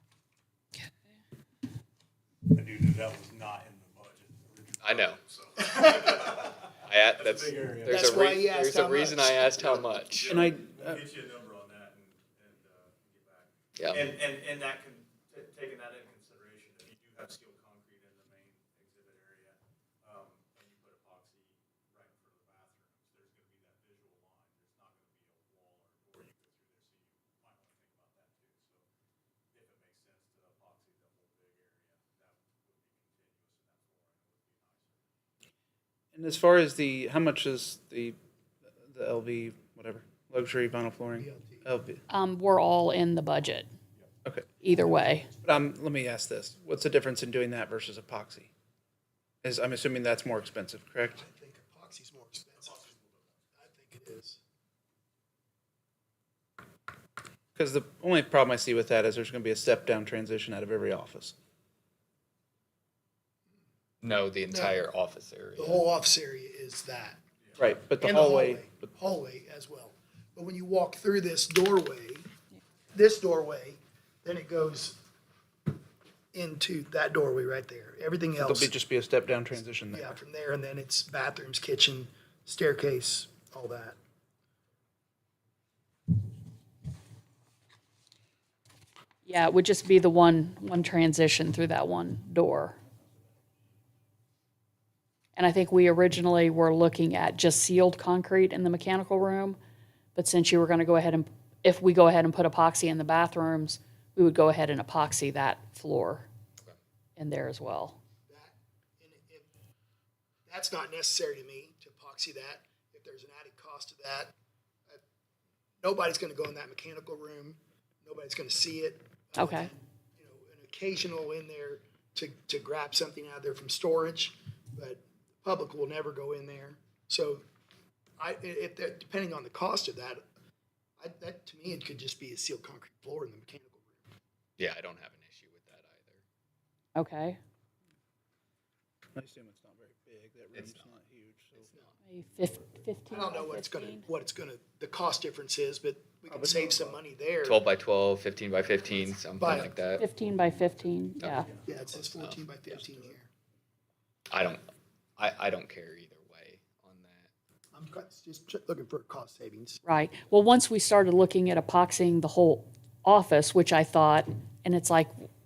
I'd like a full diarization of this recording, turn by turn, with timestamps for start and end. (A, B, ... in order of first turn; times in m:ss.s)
0:02.5-0:08.1 A
0:04.8-0:05.2 B
0:05.6-0:06.3 C
0:06.8-0:10.3 B
0:07.9-0:10.0 C
0:10.2-0:28.8 A
0:10.3-0:11.0 D
0:13.8-0:14.1 B
0:29.5-0:35.0 A
0:36.1-0:38.2 D
0:38.8-0:42.0 D
0:41.2-0:41.7 C
0:42.1-0:43.7 E
0:44.6-0:45.3 E
0:45.4-0:48.5 D
0:49.4-0:51.2 D
0:51.1-0:52.9 C
0:52.6-0:53.3 A
0:53.6-0:54.4 C
0:57.6-1:01.4 D
1:04.0-1:05.8 B
1:04.5-1:04.8 C
1:05.6-1:07.2 C
1:07.6-1:08.9 D
1:08.0-1:12.3 C
1:12.9-1:15.0 C
1:16.3-1:18.7 C
1:18.4-1:20.2 D
1:19.9-1:24.0 C
1:29.2-1:32.8 E
1:35.4-1:39.6 E
1:40.2-1:46.3 E
1:47.2-1:48.0 E
1:48.3-1:49.5 C
1:50.5-1:54.3 C
1:55.8-2:07.4 C
1:59.4-1:59.7 E
2:08.2-2:10.2 C
2:11.0-2:14.1 C
2:14.6-2:16.2 B
2:17.0-2:17.4 E
2:19.2-2:21.7 D
2:20.5-2:20.9 B
2:22.1-2:24.1 E
2:23.1-2:27.6 C
2:26.3-2:27.0 D
2:27.4-2:30.0 B
2:29.4-2:29.7 C
2:30.0-2:31.5 E
2:31.2-2:32.4 B
2:31.7-2:33.3 C
2:34.3-2:34.6 B
2:35.2-2:37.3 B
2:37.7-2:39.8 C
2:39.8-2:45.3 E